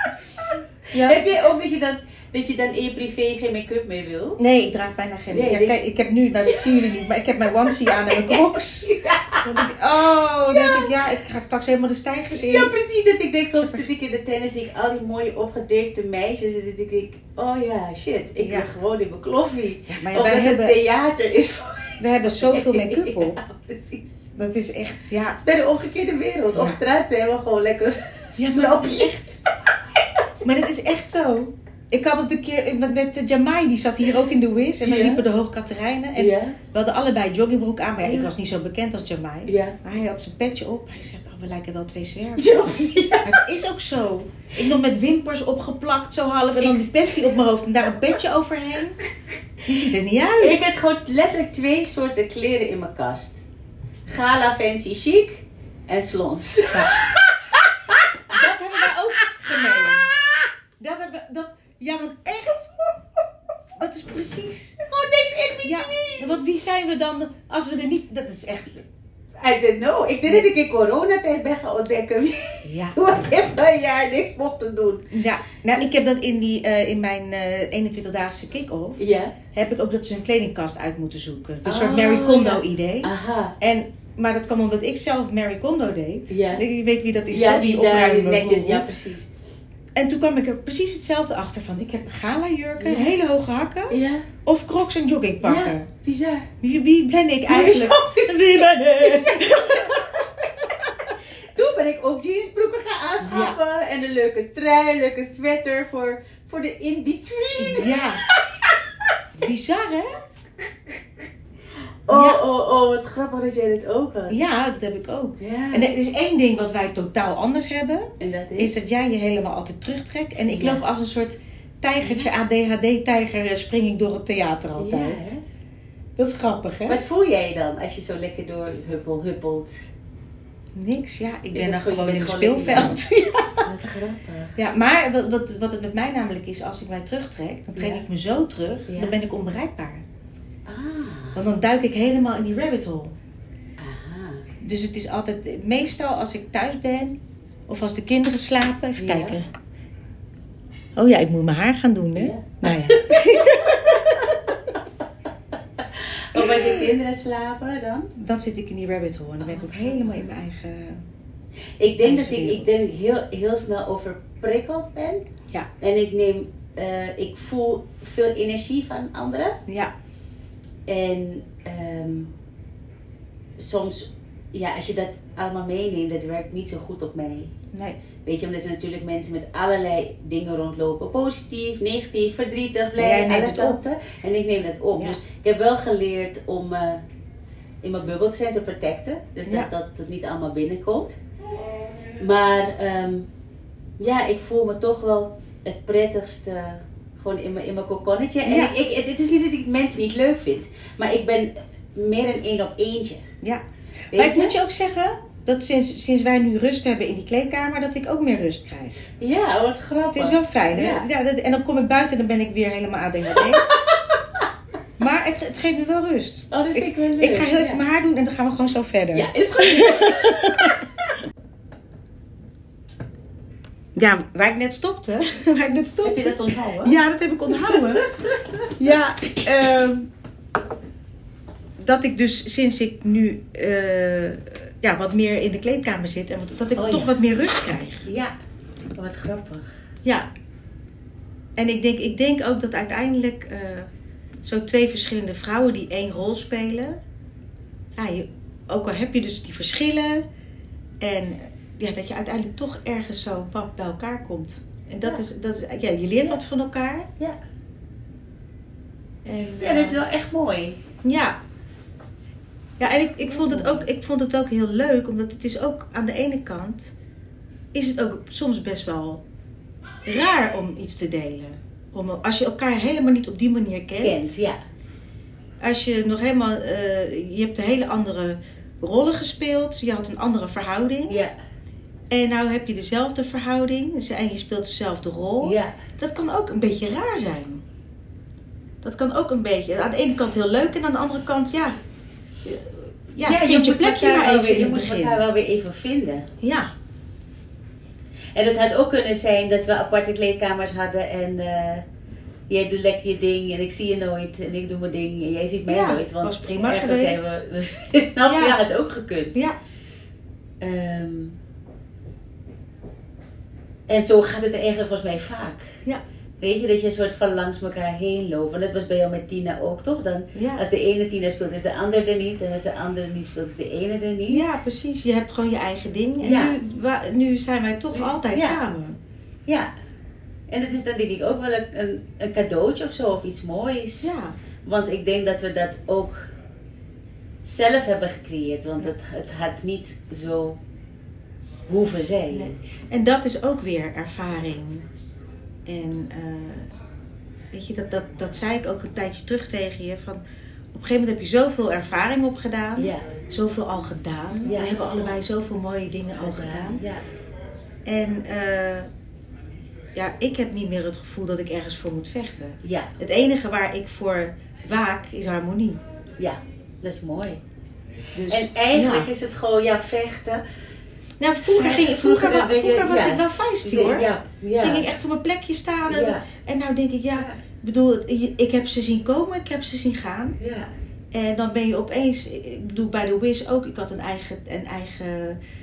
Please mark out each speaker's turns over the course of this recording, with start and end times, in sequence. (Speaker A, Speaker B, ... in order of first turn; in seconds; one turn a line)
Speaker A: 0.9-4.4
Speaker B: 0.9-1.4
Speaker B: 4.4-8.9
Speaker A: 5.3-5.8
Speaker A: 6.4-7.0
Speaker A: 7.7-9.7
Speaker B: 9.4-12.7
Speaker A: 10.2-10.9
Speaker A: 12.3-24.3
Speaker B: 18.4-18.7
Speaker B: 19.9-20.8
Speaker B: 22.0-23.4
Speaker B: 24.4-25.4
Speaker A: 25.4-29.1
Speaker B: 26.5-26.8
Speaker B: 28.4-29.4
Speaker A: 30.1-30.4
Speaker B: 30.4-49.0
Speaker A: 34.8-35.2
Speaker A: 36.1-36.6
Speaker A: 38.0-38.3
Speaker A: 39.5-39.8
Speaker A: 42.4-43.4
Speaker A: 46.6-47.4
Speaker B: 49.6-50.7
Speaker A: 50.4-53.4
Speaker A: 54.1-58.3
Speaker B: 56.7-57.0
Speaker B: 58.3-60.1
Speaker A: 59.2-59.8
Speaker B: 60.8-62.9
Speaker B: 63.7-64.8
Speaker A: 64.8-66.4
Speaker B: 65.6-68.8
Speaker A: 69.4-75.1
Speaker B: 72.6-73.0
Speaker B: 75.1-79.0
Speaker A: 79.0-79.3
Speaker B: 79.5-88.8
Speaker A: 81.6-83.5
Speaker A: 86.3-86.6
Speaker A: 87.3-89.3
Speaker B: 89.9-95.9
Speaker A: 92.8-93.1
Speaker A: 93.9-94.3
Speaker A: 95.4-96.5
Speaker B: 96.6-100.2
Speaker A: 97.5-108.7
Speaker B: 103.2-103.6
Speaker B: 107.6-108.2
Speaker B: 109.4-110.2
Speaker A: 112.1-114.4
Speaker B: 112.1-112.4
Speaker B: 114.3-125.3
Speaker A: 115.4-115.9
Speaker A: 118.2-118.7
Speaker A: 120.5-120.8
Speaker A: 124.8-125.4
Speaker B: 126.2-127.0
Speaker A: 126.9-129.7
Speaker B: 130.7-133.6
Speaker A: 131.5-133.0
Speaker A: 133.6-134.6
Speaker B: 134.6-140.0
Speaker A: 137.7-138.0
Speaker A: 138.9-139.1
Speaker A: 140.7-141.4
Speaker B: 141.3-143.2
Speaker A: 143.8-144.5
Speaker B: 144.6-149.5
Speaker A: 149.0-149.4
Speaker B: 150.9-154.4
Speaker A: 152.2-154.5
Speaker A: 155.9-158.1
Speaker B: 156.3-156.9
Speaker B: 158.2-161.0
Speaker A: 159.4-160.1
Speaker A: 161.8-165.2
Speaker B: 162.0-162.7
Speaker A: 165.8-169.6
Speaker B: 169.7-169.9
Speaker A: 170.9-172.3
Speaker A: 173.6-177.5
Speaker B: 177.7-178.0
Speaker A: 178.2-187.0
Speaker B: 183.0-183.8
Speaker A: 187.8-191.2
Speaker A: 192.2-193.3
Speaker A: 194.0-203.2
Speaker B: 198.4-198.7
Speaker B: 203.4-209.0
Speaker A: 204.1-204.5
Speaker A: 209.2-211.1
Speaker B: 210.1-213.7
Speaker A: 213.7-214.2
Speaker B: 215.0-220.8
Speaker A: 216.5-217.8
Speaker A: 219.1-220.8
Speaker B: 223.9-228.1
Speaker A: 226.0-227.0
Speaker A: 227.6-228.7
Speaker B: 228.7-230.1
Speaker B: 231.8-238.0
Speaker A: 236.8-237.1
Speaker A: 238.0-238.3
Speaker A: 238.9-239.7
Speaker B: 241.6-243.9
Speaker B: 244.4-247.0
Speaker B: 247.9-250.2
Speaker B: 251.0-257.1
Speaker B: 259.2-260.0
Speaker A: 259.6-260.8
Speaker B: 261.0-261.4
Speaker B: 262.8-266.9
Speaker A: 263.2-263.8
Speaker B: 267.7-269.2
Speaker B: 270.0-274.3
Speaker A: 274.0-274.6
Speaker B: 275.6-281.2
Speaker A: 281.1-281.3
Speaker B: 282.1-287.6
Speaker A: 285.4-285.7
Speaker B: 288.8-291.8
Speaker B: 292.4-295.2
Speaker A: 293.1-296.3
Speaker B: 296.4-296.7
Speaker A: 298.3-301.8
Speaker A: 302.5-309.4
Speaker B: 305.7-307.3
Speaker B: 308.2-308.6
Speaker A: 310.6-311.4
Speaker A: 313.9-315.7
Speaker A: 316.4-324.6
Speaker B: 320.3-320.6
Speaker B: 324.3-329.0
Speaker A: 326.2-326.6
Speaker A: 327.9-328.6
Speaker A: 330.5-334.1
Speaker B: 334.0-334.4
Speaker A: 334.6-336.3
Speaker A: 337.4-340.6
Speaker A: 341.7-342.6
Speaker B: 342.3-344.9
Speaker B: 345.6-346.7
Speaker B: 347.5-350.2
Speaker B: 350.7-356.8
Speaker A: 352.8-353.1
Speaker A: 354.4-355.2
Speaker A: 356.2-357.0
Speaker B: 357.9-358.9
Speaker B: 359.9-365.8
Speaker A: 362.6-362.9
Speaker A: 366.2-367.4
Speaker B: 368.1-369.1
Speaker A: 368.3-370.4
Speaker B: 371.2-380.4
Speaker A: 371.4-374.9
Speaker A: 375.9-376.2
Speaker A: 377.1-377.4
Speaker A: 380.4-380.7
Speaker B: 381.1-385.4